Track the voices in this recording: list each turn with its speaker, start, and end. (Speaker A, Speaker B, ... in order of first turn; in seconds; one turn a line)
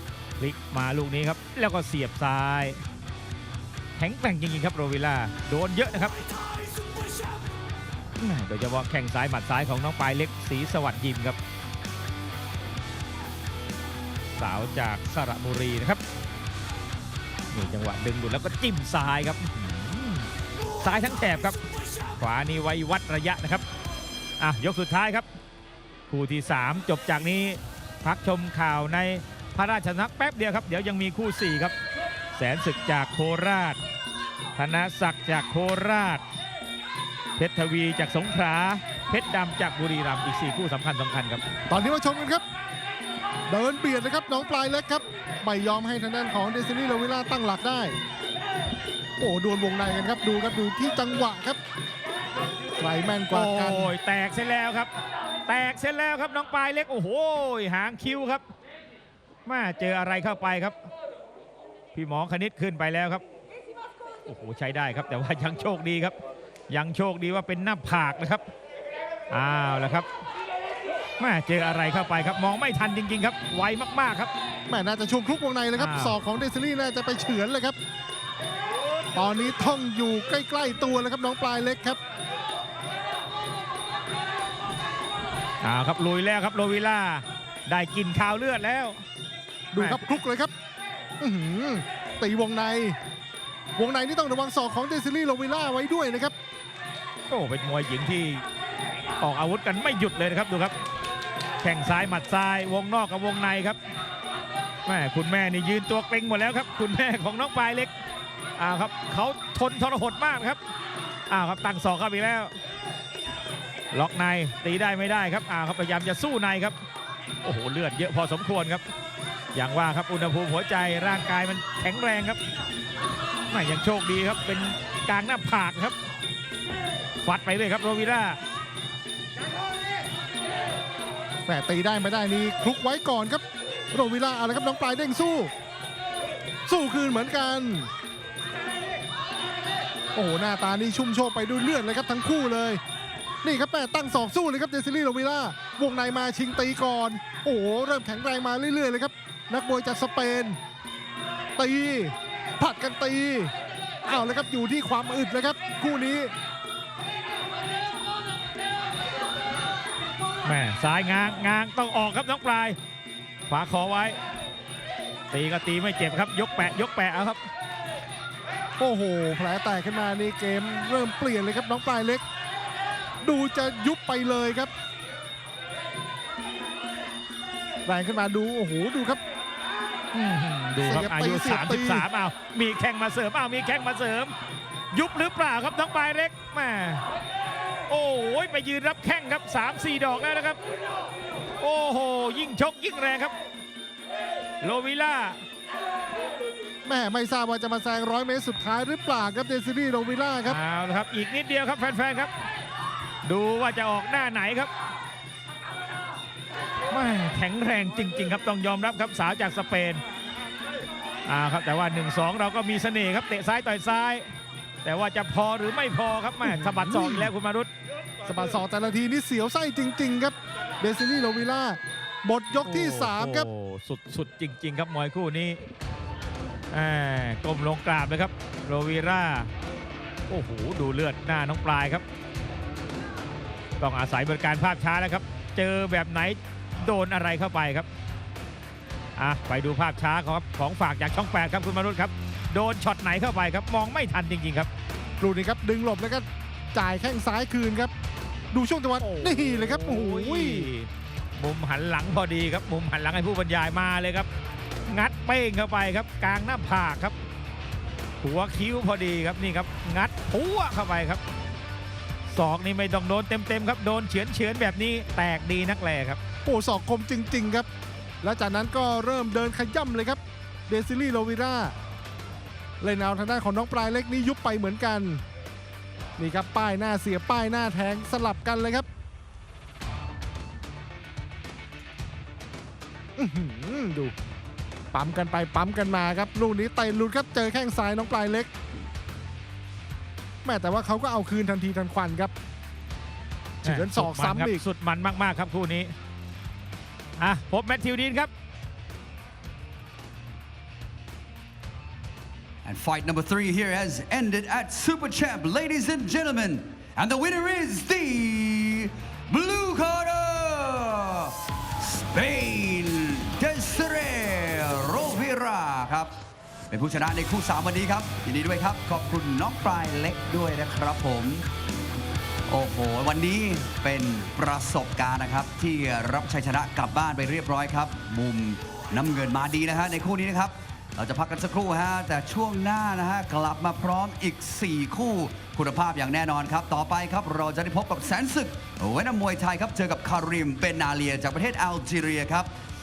Speaker A: 0.4-2.8
Speaker A: 4.0-6.2
Speaker A: 8.2-11.4
Speaker A: 14.3-16.0
Speaker A: 17.5-20.3
Speaker A: 20.8-21.6
Speaker A: 22.2-23.6
Speaker A: 24.4-25.3
Speaker A: 26.1-31.8
Speaker A: 32.4-33.8
Speaker A: 34.6-36.2
Speaker A: 37.4-41.4
Speaker B: 41.7-42.4
Speaker B: 43.5-48.0
Speaker B: 49.2-51.6
Speaker B: 52.8-53.9
Speaker A: 53.3-54.9
Speaker A: 55.5-58.4
Speaker A: 59.5-60.8
Speaker A: 61.9-63.2
Speaker A: 64.2-66.2
Speaker A: 66.7-68.5
Speaker A: 69.3-70.1
Speaker A: 71.2-74.3
Speaker B: 74.7-77.8
Speaker A: 75.8-76.2
Speaker B: 79.2-82.0
Speaker A: 85.6-89.0
Speaker B: 89.7-90.5
Speaker A: 89.8-90.1
Speaker B: 91.2-93.0
Speaker B: 93.8-96.3
Speaker A: 97.3-98.4
Speaker A: 99.2-100.7
Speaker A: 101.6-103.8
Speaker A: 104.9-107.9
Speaker A: 108.6-110.6
Speaker A: 111.3-112.5
Speaker A: 113.9-116.8
Speaker A: 117.4-118.8
Speaker A: 119.5-122.4
Speaker A: 123.5-126.0
Speaker A: 127.2-128.4
Speaker B: 131.5-135.5
Speaker B: 136.7-137.9
Speaker B: 140.2-142.8
Speaker B: 143.4-150.6
Speaker B: 151.6-153.5
Speaker B: 154.1-156.3
Speaker A: 160.4-162.8
Speaker A: 163.5-164.2
Speaker A: 165.3-167.4
Speaker B: 168.8-172.2
Speaker B: 173.2-174.7
Speaker B: 177.9-179.2
Speaker A: 180.1-184.3
Speaker B: 180.8-182.1
Speaker A: 184.9-187.0
Speaker A: 187.9-190.6
Speaker A: 191.6-193.3
Speaker A: 194.6-195.4
Speaker B: 196.8-200.6
Speaker A: 200.5-202.3
Speaker A: 203.2-204.7
Speaker A: 206.9-210.0
Speaker A: 211.2-214.3
Speaker A: 214.8-217.7
Speaker B: 216.4-217.3
Speaker B: 218.2-223.5
Speaker A: 222.6-225.6
Speaker A: 226.7-229.5
Speaker A: 230.3-232.0
Speaker A: 233.8-237.9
Speaker A: 239.2-244.7
Speaker B: 245.2-247.9
Speaker B: 248.5-250.7
Speaker A: 249.0-254.3
Speaker A: 254.9-257.2
Speaker A: 258.2-261.2
Speaker A: 262.3-266.2
Speaker B: 266.4-267.7
Speaker B: 268.2-271.8
Speaker B: 272.8-275.2
Speaker B: 276.2-278.9
Speaker B: 283.2-284.1
Speaker B: 284.9-288.5
Speaker B: 290.4-292.3
Speaker B: 293.6-294.6
Speaker A: 293.6-295.9
Speaker A: 297.2-298.3
Speaker C: 302.6-316.1
Speaker C: 316.7-321.5
Speaker C: 322.5-342.5